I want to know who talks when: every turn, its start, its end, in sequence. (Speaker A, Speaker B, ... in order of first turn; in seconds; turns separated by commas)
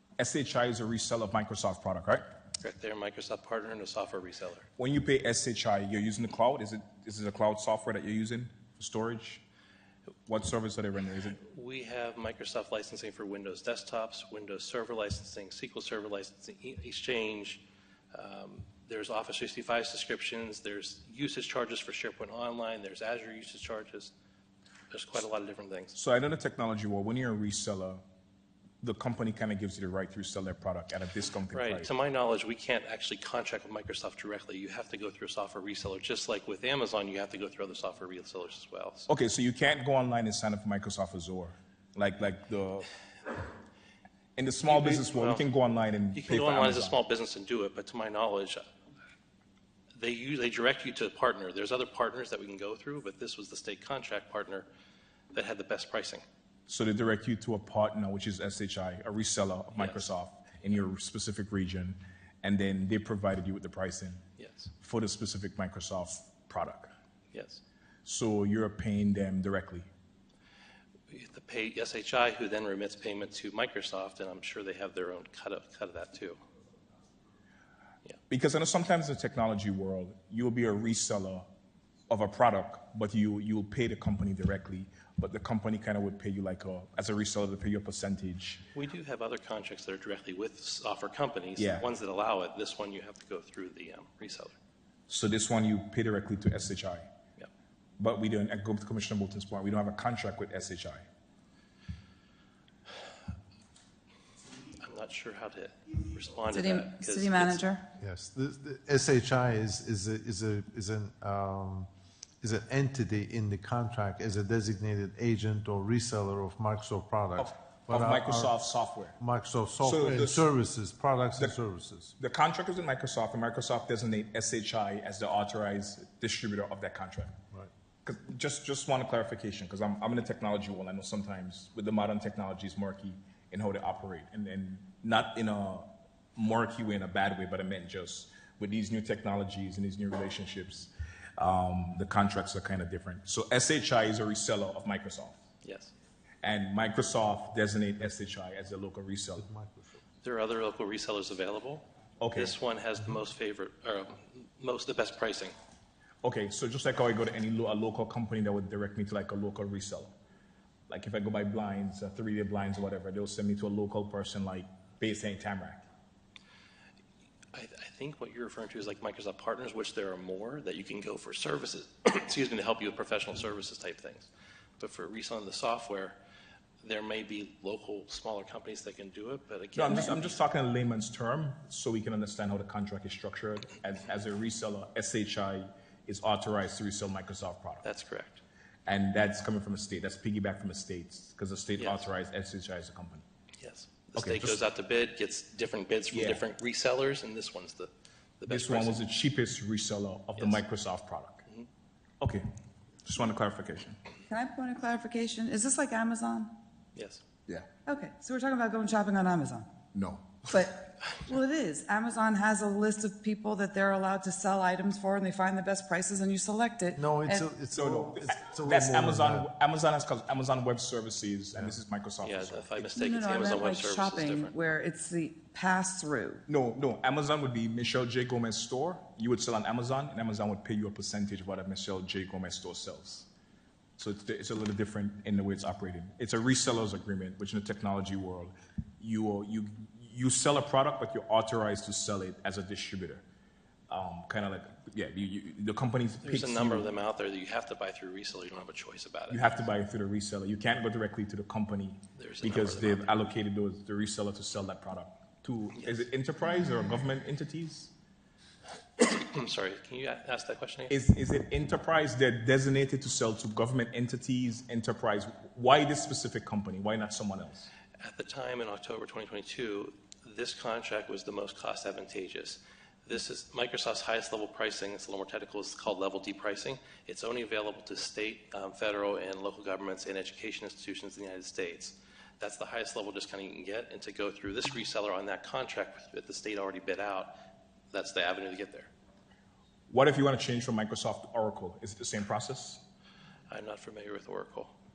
Speaker A: 0.2-2.2, Speaker B: 2.6-4.7, Speaker A: 4.8-9.4, Speaker A: 10.3-11.4, Speaker B: 11.4-24.1, Speaker B: 24.9-26.0, Speaker A: 26.0-28.0, Speaker A: 28.8-31.9, Speaker B: 31.5-39.1, Speaker A: 39.1-42.9, Speaker A: 44.4-47.0, Speaker B: 44.6-45.5, Speaker B: 46.1-48.6, Speaker B: 50.0-54.7, Speaker B: 55.3-56.2, Speaker A: 56.7-64.2, Speaker B: 59.8-60.1, Speaker B: 64.4-64.7, Speaker A: 64.8-66.9, Speaker B: 67.3-67.6, Speaker A: 68.0-69.9, Speaker B: 71.1-76.4, Speaker A: 78.3-81.5, Speaker A: 82.1-88.6, Speaker B: 88.7-94.6, Speaker A: 91.6-91.8, Speaker A: 95.1-97.1, Speaker A: 98.0-101.1, Speaker B: 104.8-107.6, Speaker C: 106.5-107.9, Speaker D: 108.0-111.9, Speaker D: 112.4-118.6, Speaker A: 117.4-119.2, Speaker D: 119.2-122.1, Speaker A: 119.8-120.5, Speaker A: 122.2-127.4, Speaker A: 128.0-145.4, Speaker B: 145.6-145.9, Speaker A: 146.4-149.5, Speaker D: 149.4-150.0, Speaker B: 150.2-151.8, Speaker A: 152.2-152.6, Speaker B: 152.4-155.5, Speaker A: 156.2-160.2, Speaker A: 160.9-165.9, Speaker B: 167.5-174.3, Speaker B: 174.8-176.2, Speaker B: 176.8-180.4, Speaker A: 179.8-187.8, Speaker B: 187.8-188.4, Speaker A: 188.9-193.2, Speaker B: 191.8-192.1, Speaker B: 193.6-199.1, Speaker A: 194.2-194.6, Speaker A: 196.1-196.4, Speaker A: 198.5-201.4, Speaker B: 200.4-200.6, Speaker A: 203.1-204.0, Speaker C: 204.3-206.5, Speaker B: 206.9-207.2, Speaker C: 207.8-209.8, Speaker A: 209.9-210.7, Speaker C: 210.5-217.5, Speaker D: 216.9-219.5, Speaker A: 217.7-222.8, Speaker B: 222.2-224.6, Speaker C: 222.9-226.4, Speaker A: 226.5-233.3, Speaker A: 234.0-243.2, Speaker A: 243.9-246.9, Speaker B: 246.2-249.5, Speaker A: 249.3-257.9, Speaker B: 252.2-253.2, Speaker B: 255.8-256.1, Speaker B: 259.0-260.9, Speaker A: 260.9-267.7, Speaker B: 268.0-287.4, Speaker B: 287.9-288.9, Speaker A: 289.9-292.8, Speaker B: 293.5-294.7